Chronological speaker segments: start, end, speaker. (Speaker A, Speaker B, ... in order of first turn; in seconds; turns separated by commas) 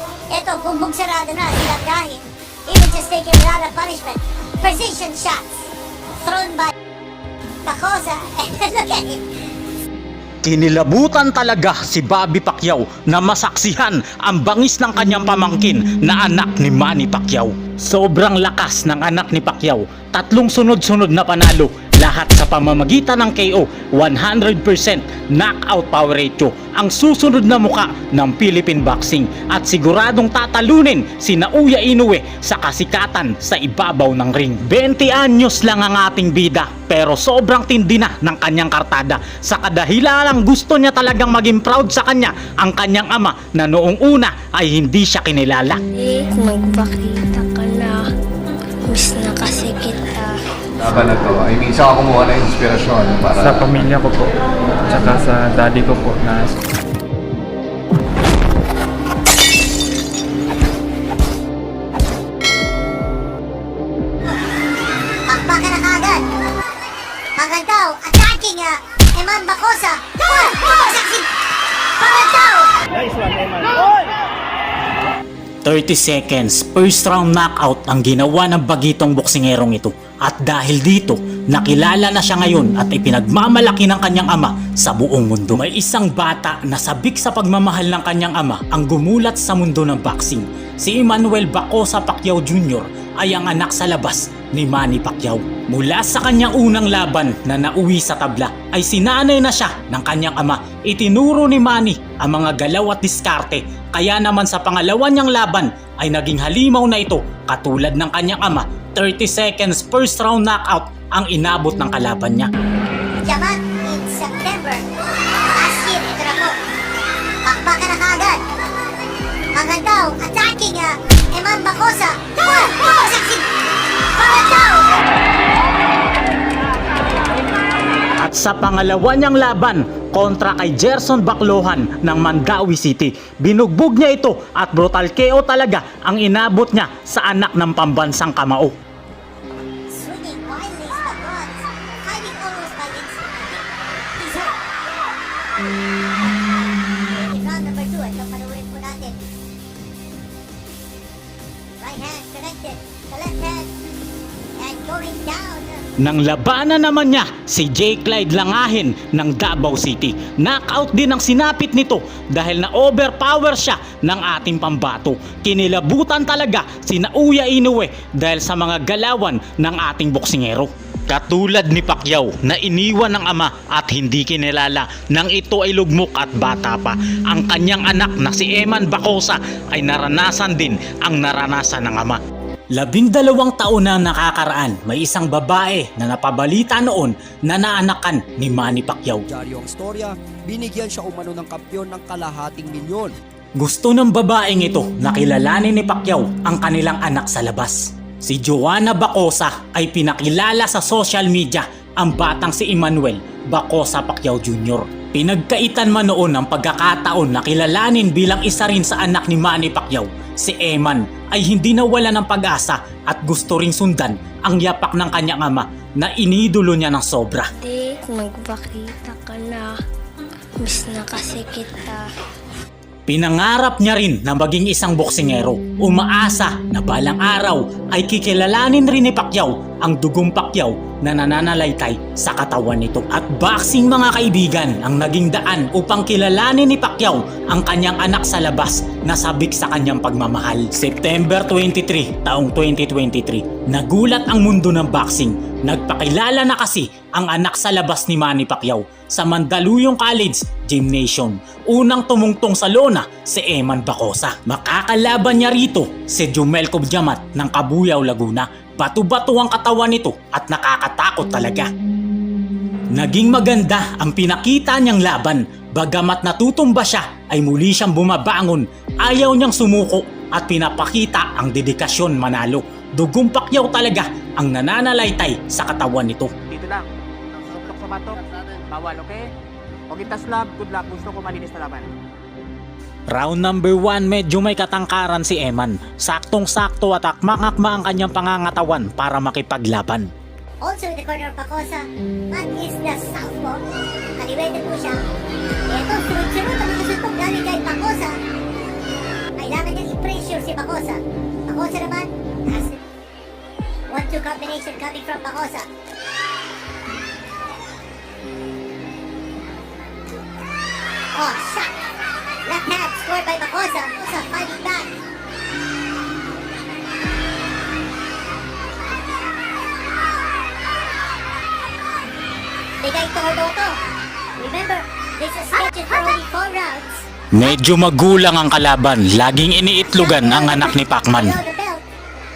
Speaker A: 0.3-5.5, Speaker A: 6.2-6.7, Speaker A: 7.6-9.2, Speaker B: 10.4-45.8, Speaker C: 46.0-48.0, Speaker C: 48.9-50.4, Speaker D: 50.8-53.9, Speaker E: 53.3-56.5, Speaker A: 65.3-66.2, Speaker A: 67.3-71.3, Speaker A: 72.0-72.8, Speaker B: 75.6-112.5, Speaker A: 113.2-114.9, Speaker A: 115.5-116.5, Speaker A: 117.4-118.4, Speaker A: 119.5-123.5, Speaker A: 124.1-124.9, Speaker B: 128.2-138.7, Speaker A: 139.9-144.6, Speaker A: 147.1-149.2, Speaker A: 151.8-153.7, Speaker A: 154.6-155.8, Speaker B: 156.0-182.2, Speaker B: 182.7-189.2, Speaker F: 189.3-193.1, Speaker B: 193.6-217.5, Speaker C: 217.6-219.7, Speaker C: 220.6-222.0, Speaker B: 223.1-261.7, Speaker B: 262.9-276.3, Speaker G: 276.5-276.9, Speaker G: 277.4-279.3, Speaker G: 279.9-281.9, Speaker B: 283.1-290.1, Speaker A: 290.6-293.6, Speaker A: 294.2-295.0, Speaker A: 295.7-298.1, Speaker A: 299.4-302.8, Speaker A: 303.9-305.7, Speaker A: 311.1-311.7, Speaker A: 312.4-314.9, Speaker A: 322.8-323.8, Speaker A: 324.4-327.0, Speaker B: 327.3-331.4, Speaker A: 329.9-331.8